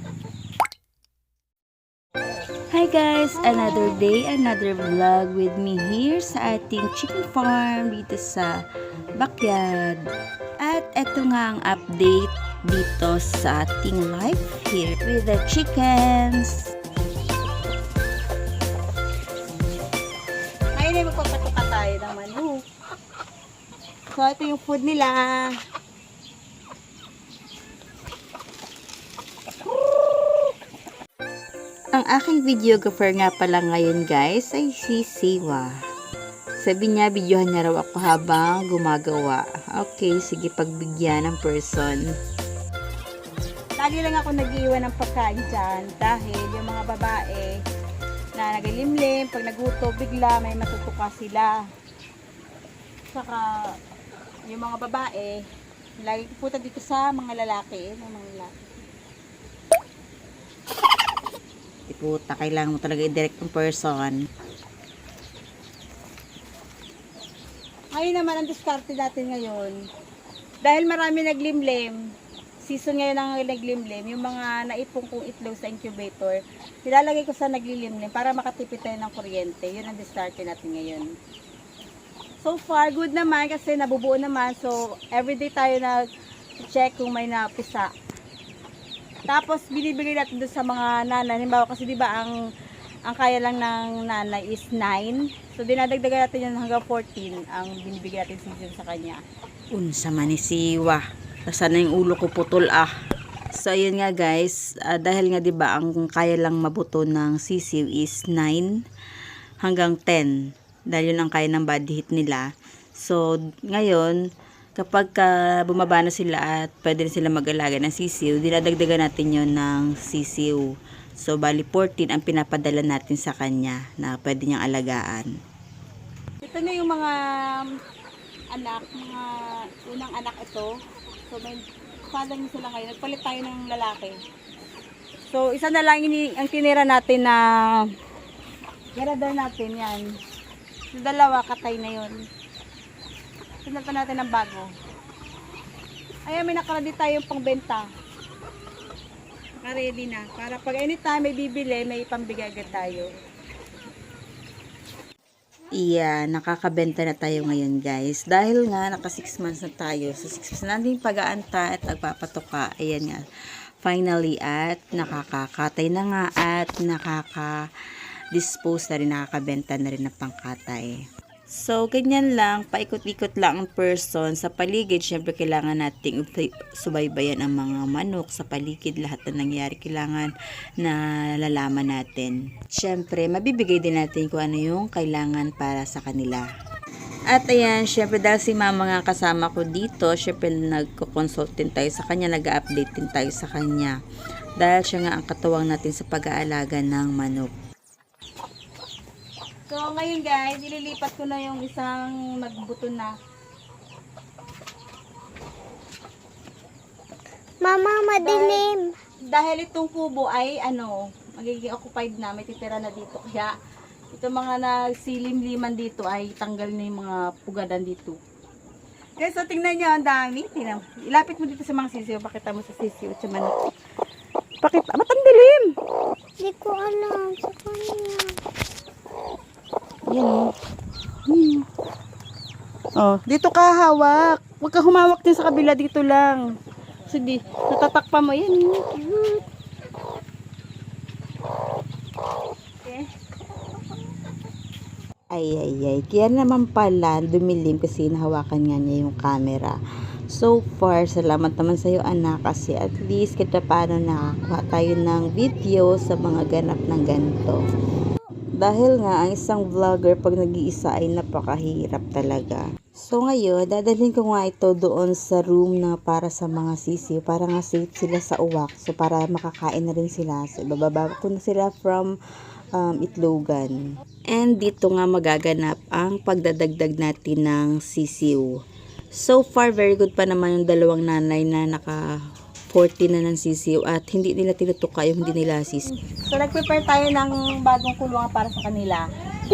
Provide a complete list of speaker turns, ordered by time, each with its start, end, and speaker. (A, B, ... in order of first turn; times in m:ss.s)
0:02.7-0:08.6 A
0:09.2-0:10.0 A
0:10.6-0:16.6 A
0:20.8-0:22.6 B
0:24.2-0:25.5 B
0:32.0-0:35.7 A
0:36.6-0:42.0 A
0:43.8-0:47.6 B
0:48.4-0:51.5 B
0:53.1-0:53.4 B
0:54.5-0:55.4 B
0:56.0-0:58.8 B
1:01.9-1:04.2 A
1:07.9-1:09.8 B
1:10.6-1:12.0 B
1:12.6-1:21.0 B
1:22.4-1:26.0 B
1:26.6-1:27.9 B
1:29.3-1:32.3 B
1:33.1-1:39.2 B
1:39.8-1:42.9 A
1:43.6-1:48.7 A
1:49.6-1:50.3 A
1:50.9-1:52.4 A
1:53.0-1:54.2 A
1:54.8-2:00.6 A
2:01.2-2:05.3 A
2:06.4-2:07.6 B
2:08.5-2:09.2 B
2:09.8-2:10.7 B
2:11.3-2:14.2 B
2:15.3-2:17.4 B
2:19.0-2:20.1 B
2:20.9-2:22.2 B
2:23.6-2:24.7 B
2:26.3-2:27.8 B
2:29.6-2:33.1 B
2:35.8-2:43.2 A
2:43.8-2:47.5 A
2:48.3-2:50.9 A
2:51.6-3:06.4 A
3:07.3-3:13.9 A
3:14.6-3:17.5 A
3:19.7-3:23.1 B
3:27.6-3:28.9 C
3:28.2-3:28.6 B
3:29.3-3:33.5 B
3:34.1-3:38.2 B
3:39.2-3:43.6 B
3:44.6-3:45.7 B
3:46.4-3:48.4 C
3:50.1-3:50.5 B
3:51.3-3:51.6 B
3:53.0-3:56.4 B
3:57.1-3:59.4 B
4:05.3-4:09.8 A
4:10.3-4:17.6 A
4:18.6-4:32.1 A
4:32.8-4:33.7 A
4:34.3-4:38.5 A
4:39.2-4:42.0 A
4:42.7-4:45.9 A
4:46.3-4:49.0 B